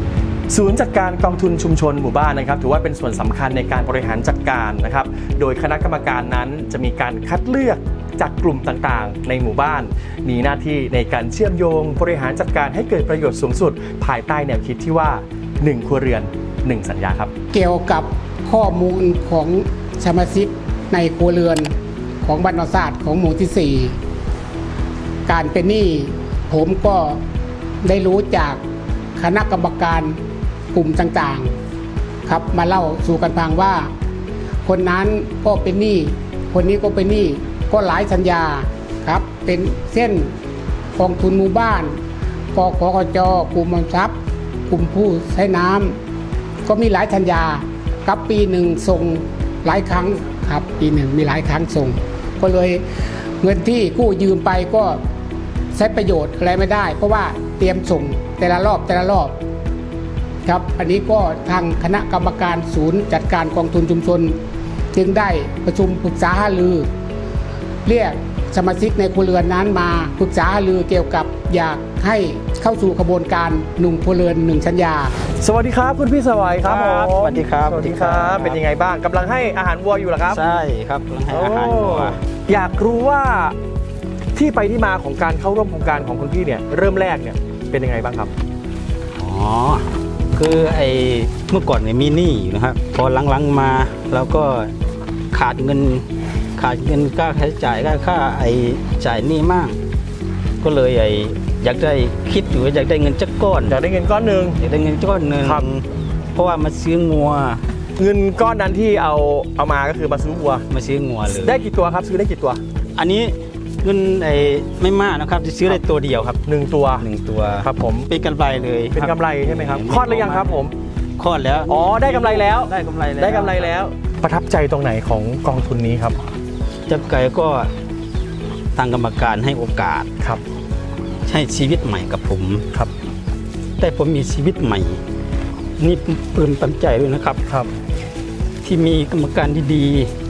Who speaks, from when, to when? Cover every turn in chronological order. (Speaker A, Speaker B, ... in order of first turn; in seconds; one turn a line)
Speaker A: 0.5-17.3
Speaker B: 17.5-23.9
Speaker B: 25.2-27.2
Speaker B: 27.8-28.6
Speaker B: 29.1-30.2
Speaker B: 30.7-31.5
Speaker B: 32.2-33.9
Speaker B: 34.6-40.3
Speaker B: 40.9-42.0
Speaker B: 42.5-46.0
Speaker B: 46.6-52.8
Speaker B: 53.4-55.0
Speaker B: 55.7-59.4
Speaker B: 60.4-64.4
Speaker B: 64.9-66.9
Speaker B: 67.8-75.1
Speaker A: 75.4-80.4
Speaker C: 76.6-78.6
Speaker C: 80.3-82.2
Speaker A: 81.3-83.6
Speaker A: 84.3-88.3
Speaker C: 89.2-94.7
Speaker C: 95.3-99.8
Speaker C: 100.6-103.8
Speaker A: 103.7-104.6
Speaker C: 104.6-107.6
Speaker A: 105.4-105.7
Speaker A: 108.0-110.7
Speaker C: 110.7-111.6
Speaker A: 111.3-112.6
Speaker C: 113.0-116.4
Speaker A: 116.4-118.1
Speaker C: 117.0-120.6
Speaker A: 118.9-120.8
Speaker C: 121.2-123.7
Speaker A: 121.7-126.2
Speaker C: 126.9-127.7
Speaker C: 128.8-130.1
Speaker C: 131.2-132.6
Speaker C: 133.8-135.0
Speaker C: 135.8-137.4
Speaker C: 138.6-140.1